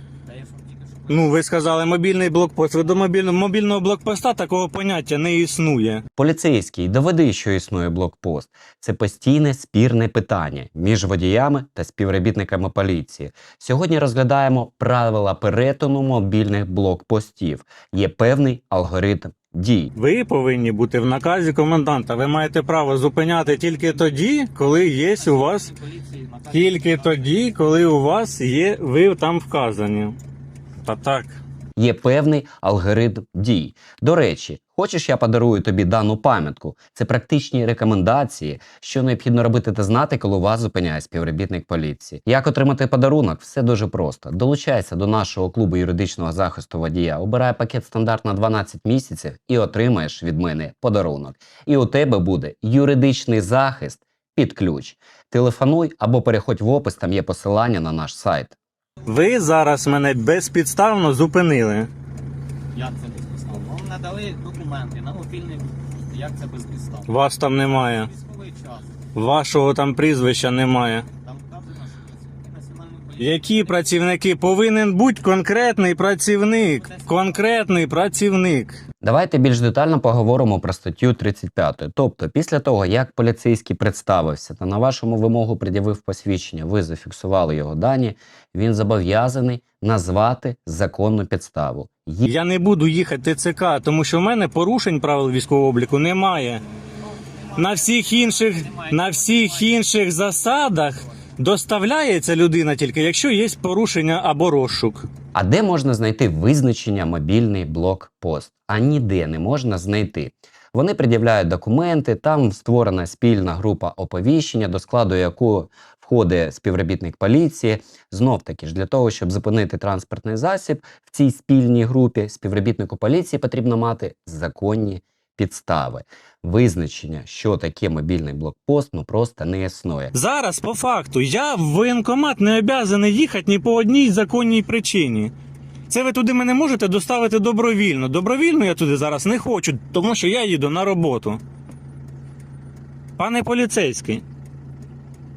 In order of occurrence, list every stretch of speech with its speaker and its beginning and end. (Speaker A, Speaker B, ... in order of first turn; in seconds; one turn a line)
Speaker A: 0.3-1.0
Speaker B: 1.1-6.0
Speaker C: 6.2-19.9
Speaker B: 20.0-25.7
Speaker A: 25.4-27.0
Speaker B: 26.5-30.2
Speaker B: 30.8-31.4
Speaker C: 31.8-58.5
Speaker B: 59.0-61.9
Speaker A: 62.8-67.1
Speaker B: 67.1-68.1
Speaker A: 68.1-68.8
Speaker B: 69.1-71.1
Speaker A: 71.2-73.5
Speaker B: 73.2-78.8
Speaker C: 79.0-92.3
Speaker B: 92.2-96.6
Speaker B: 97.5-105.1
Speaker A: 98.7-99.4
Speaker C: 105.3-130.1
Speaker B: 130.1-135.3
Speaker B: 135.9-141.4
Speaker B: 143.2-144.2